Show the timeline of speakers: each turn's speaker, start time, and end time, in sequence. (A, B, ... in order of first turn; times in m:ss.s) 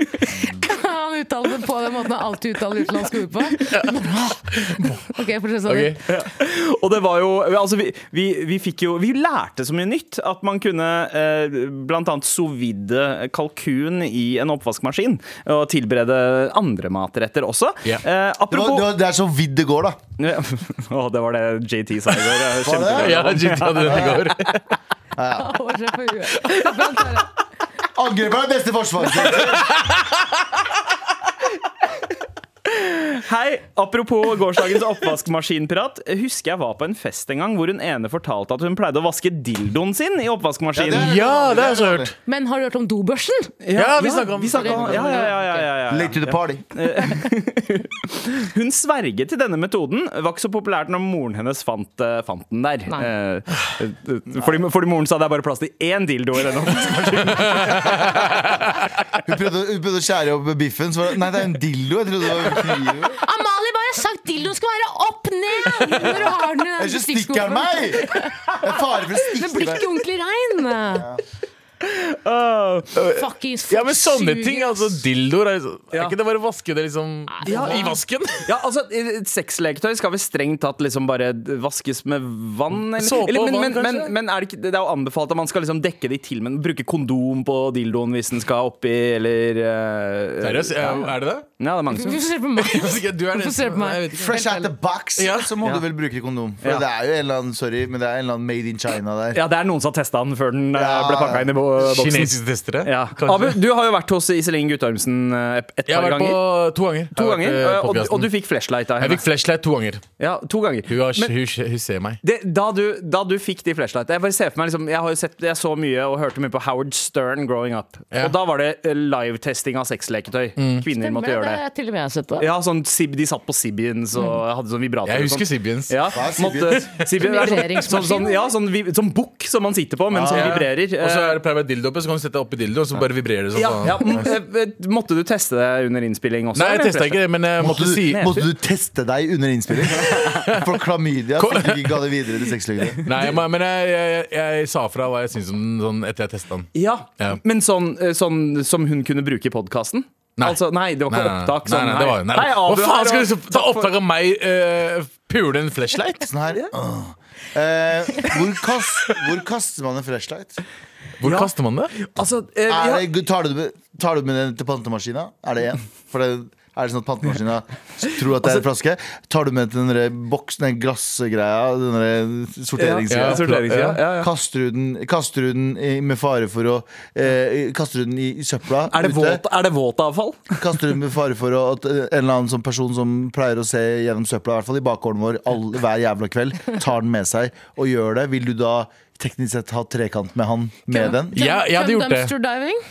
0:00.4-0:04.2 A
0:03.7-0:05.0 B
0:05.1-0:06.0 A
0:05.6-0:06.0 B
0:06.1-0:18.9 C
0:18.5-0:20.0 D
0:20.2-0:24.2 C
0:22.6-0:23.3 D
0:23.0-0:24.7 B
0:23.8-0:24.2 D
0:25.2-0:25.5 D
0:25.4-0:27.3 A
0:27.9-0:29.8 D
0:32.6-0:41.1 C
0:40.7-0:42.1 D
0:40.9-0:42.1 B
0:42.2-0:43.5 A
0:43.6-0:58.2 C
0:43.7-0:45.3 B
0:44.6-0:45.6 A
0:45.9-0:46.6 D
0:57.4-0:58.4 B
0:59.2-1:03.2 D
1:03.2-1:11.1 A
1:06.8-1:09.9 D
1:10.9-1:11.2 D
1:11.8-1:12.9 C
1:12.9-1:18.5 B
1:13.1-1:15.0 A
1:17.3-1:17.9 A
1:17.4-1:32.2 C
1:22.9-1:24.1 B
1:30.4-1:31.5 B
1:31.9-1:34.7 A
1:32.6-1:34.3 B
1:34.2-1:39.4 D
1:35.2-1:35.5 B
1:39.3-1:46.4 C
1:40.7-1:41.5 D
1:41.8-1:43.6 B
1:45.9-1:48.3 B
1:47.1-1:49.2 C
1:49.0-1:50.0 B
1:50.2-1:51.3 C
1:50.9-1:52.2 B
1:52.2-2:01.6 C
2:00.6-2:00.8 B
2:00.9-2:02.5 A
2:02.4-2:11.4 C
2:05.0-2:06.0 B
2:06.1-2:06.9 D
2:07.2-2:08.5 A
2:10.1-2:10.6 D
2:10.3-2:14.3 B
2:13.5-2:17.2 C
2:16.5-2:18.5 B
2:17.6-2:23.0 D
2:20.3-2:20.6 B
2:21.4-2:22.0 B
2:23.0-2:27.4 B
2:26.7-2:33.9 C
2:30.4-2:36.3 B
2:36.2-2:40.6 D
2:41.2-2:41.9 B
2:41.2-2:43.1 C
2:42.7-2:53.5 D
2:52.8-2:54.3 C
2:53.1-2:54.0 B
2:54.2-2:59.4 D
2:58.9-3:00.6 C
3:00.6-3:11.4 D
3:10.9-3:12.8 A
3:11.3-3:12.3 B